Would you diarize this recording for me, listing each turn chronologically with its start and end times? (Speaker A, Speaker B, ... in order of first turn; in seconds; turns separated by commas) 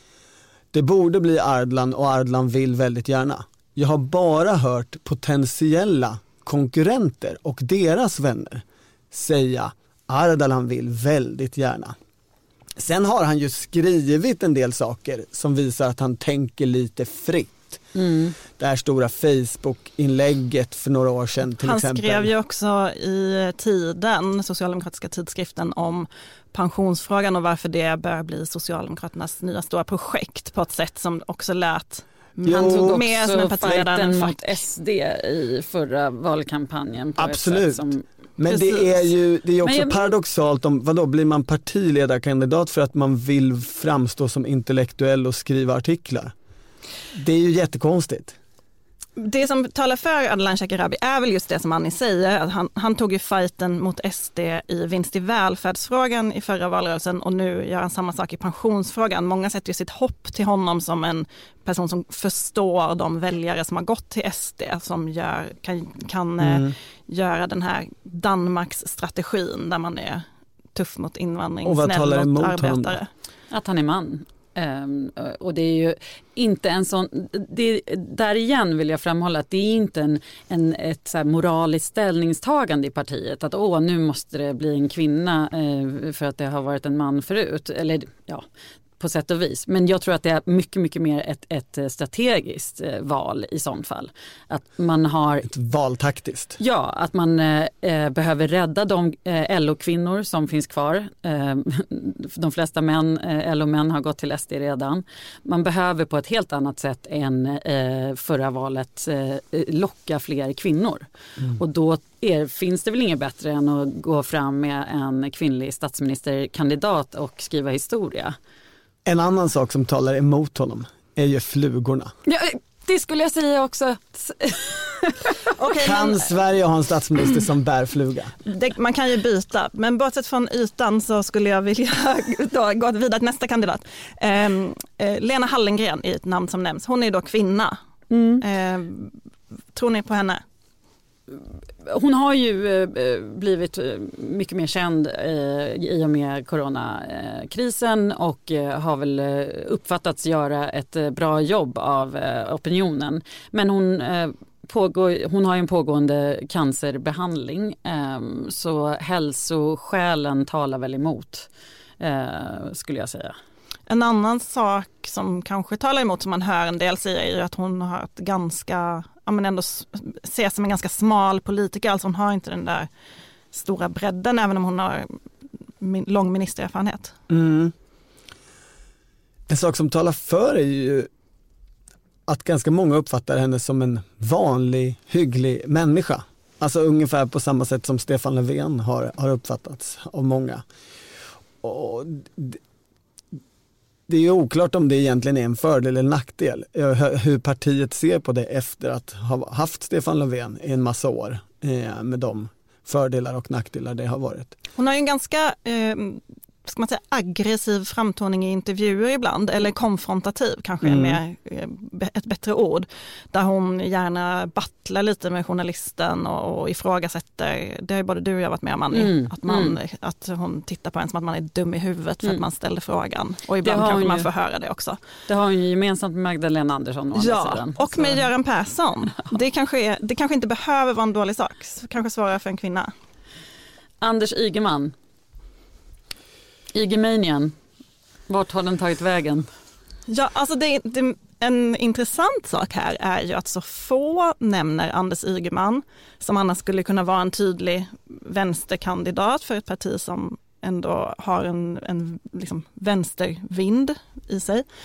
Speaker A: 0.7-11.9, Speaker A: 12.8-17.8, Speaker B: 17.9-18.3, Speaker A: 18.5-22.3, Speaker C: 21.6-34.6, Speaker A: 32.5-33.0, Speaker B: 32.5-38.0, Speaker A: 37.2-46.3, Speaker C: 38.5-38.9, Speaker B: 39.6-40.1, Speaker A: 47.1-48.4, Speaker C: 49.2-73.1, Speaker A: 66.4-66.7, Speaker A: 71.6-73.0, Speaker B: 73.5-88.4, Speaker B: 89.0-95.5, Speaker A: 95.5-96.6, Speaker B: 96.6-118.3, Speaker A: 119.0-122.1, Speaker B: 122.3-125.3, Speaker C: 125.5-126.3, Speaker A: 125.8-128.3, Speaker C: 128.4-137.8, Speaker B: 138.1-138.4, Speaker C: 138.4-139.2, Speaker C: 139.7-140.4, Speaker B: 141.3-161.5, Speaker B: 162.0-163.3, Speaker C: 163.9-172.9, Speaker C: 173.5-175.2, Speaker C: 175.8-177.1, Speaker A: 177.3-177.7, Speaker A: 179.5-181.1, Speaker A: 182.3-190.6, Speaker A: 191.6-192.6, Speaker A: 194.1-204.5, Speaker C: 204.8-225.0, Speaker A: 210.8-211.2, Speaker B: 218.9-219.8, Speaker B: 223.6-224.3, Speaker B: 225.3-228.3, Speaker C: 227.1-232.9, Speaker B: 234.0-234.9, Speaker B: 236.7-237.5, Speaker B: 238.3-239.5, Speaker C: 240.1-254.6